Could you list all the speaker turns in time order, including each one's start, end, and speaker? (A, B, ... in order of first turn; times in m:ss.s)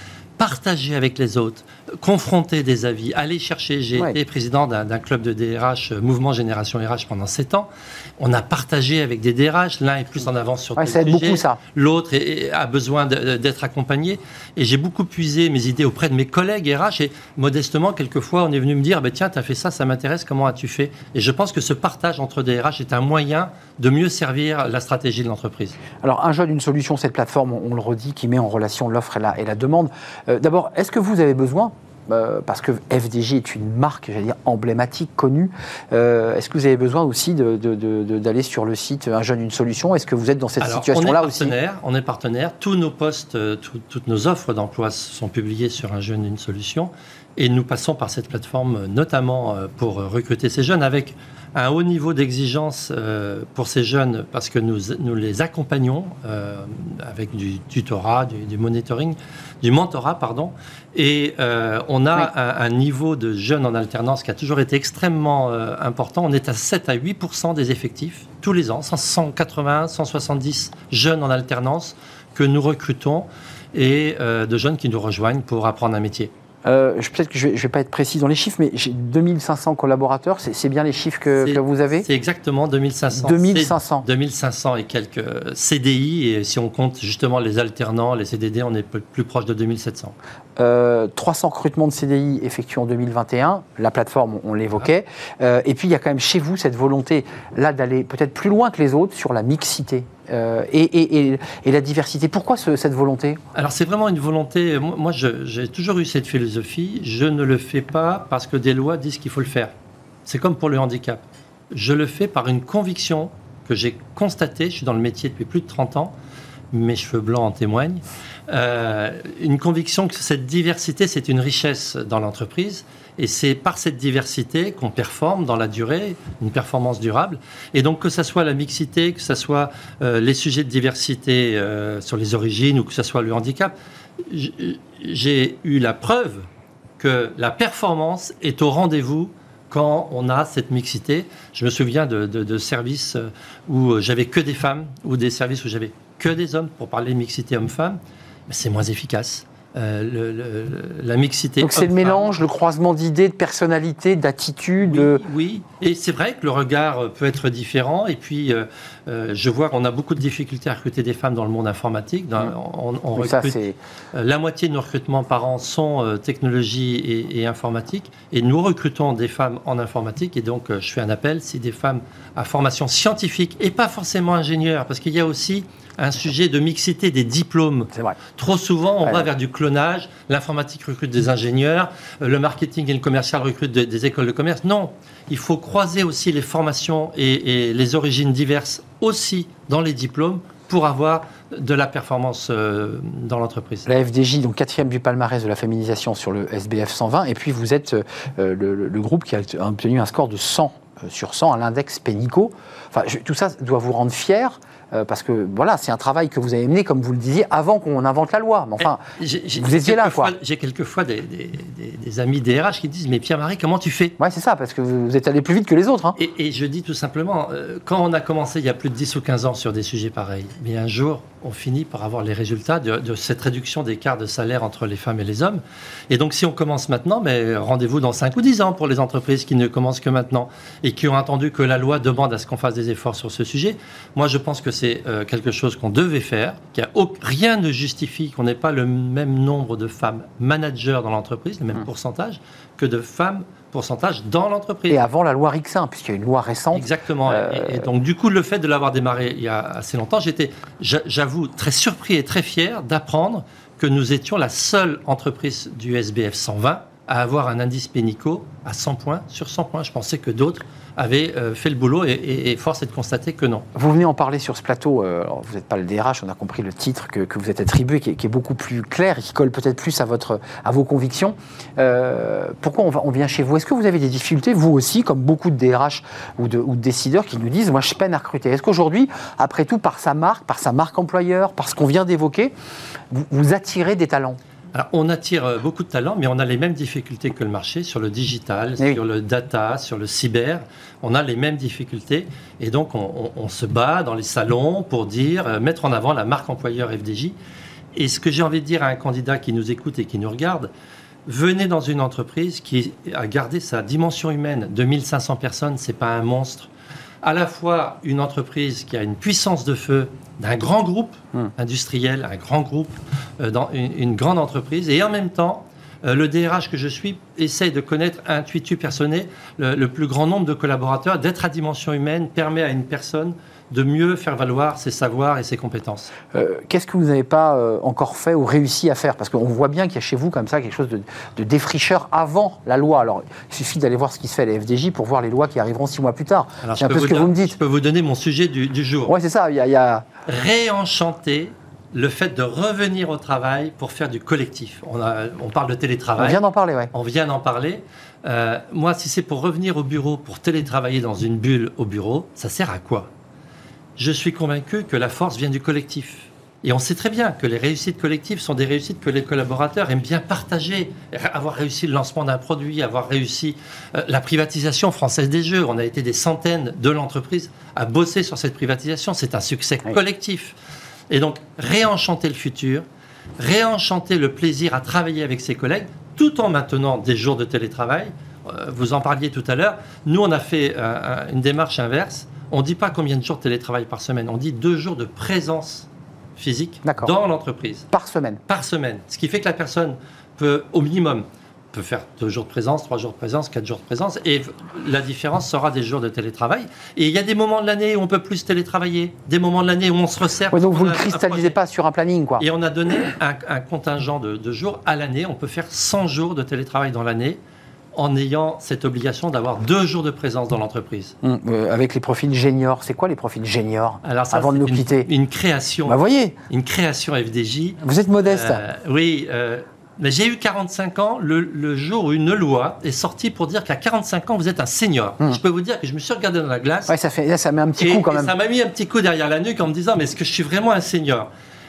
0:00.4-0:25.8 A
0:10.8-0:11.6 B
0:26.0-0:41.5 B
0:40.6-1:16.3 A
1:16.6-1:22.1 B
1:21.4-1:30.1 A
1:23.1-1:24.1 B
1:30.6-1:43.4 B
1:43.6-1:49.7 A
1:50.2-1:56.1 A
1:56.7-2:13.7 A
2:14.2-2:16.5 A
2:17.0-2:32.3 A
2:31.6-2:35.2 B
2:34.8-2:43.6 A
2:43.2-2:43.8 B
2:44.1-3:13.9 A
2:57.9-2:58.2 B
3:13.9-3:29.0 B
3:28.8-3:34.2 A
3:29.6-3:30.3 B
3:34.2-3:36.2 B
3:36.2-4:05.0 A
4:04.9-4:07.9 B
4:06.7-4:23.7 A
4:23.8-4:42.5 B
4:43.1-4:44.4 B
4:44.7-4:57.4 A
4:57.9-5:00.7 A
5:01.3-5:06.7 A
5:07.2-5:26.1 A
5:26.3-5:37.6 B
5:36.6-5:39.1 A
5:39.1-5:40.1 B
5:40.3-5:46.4 A
5:46.2-5:46.9 B
5:46.9-5:53.1 A
5:54.0-6:10.5 A
6:11.1-6:12.8 A
6:13.4-6:27.9 A
6:26.8-6:27.1 B
6:27.9-6:28.4 B
6:28.5-6:41.6 A
6:40.5-6:42.4 B
6:42.4-6:47.4 A
6:48.0-6:51.1 A
6:51.2-6:55.1 B
6:54.0-6:56.0 A
6:55.9-6:56.4 B
6:56.5-7:07.0 A
6:57.8-6:58.6 B
7:06.9-7:08.3 B
7:07.8-7:11.3 A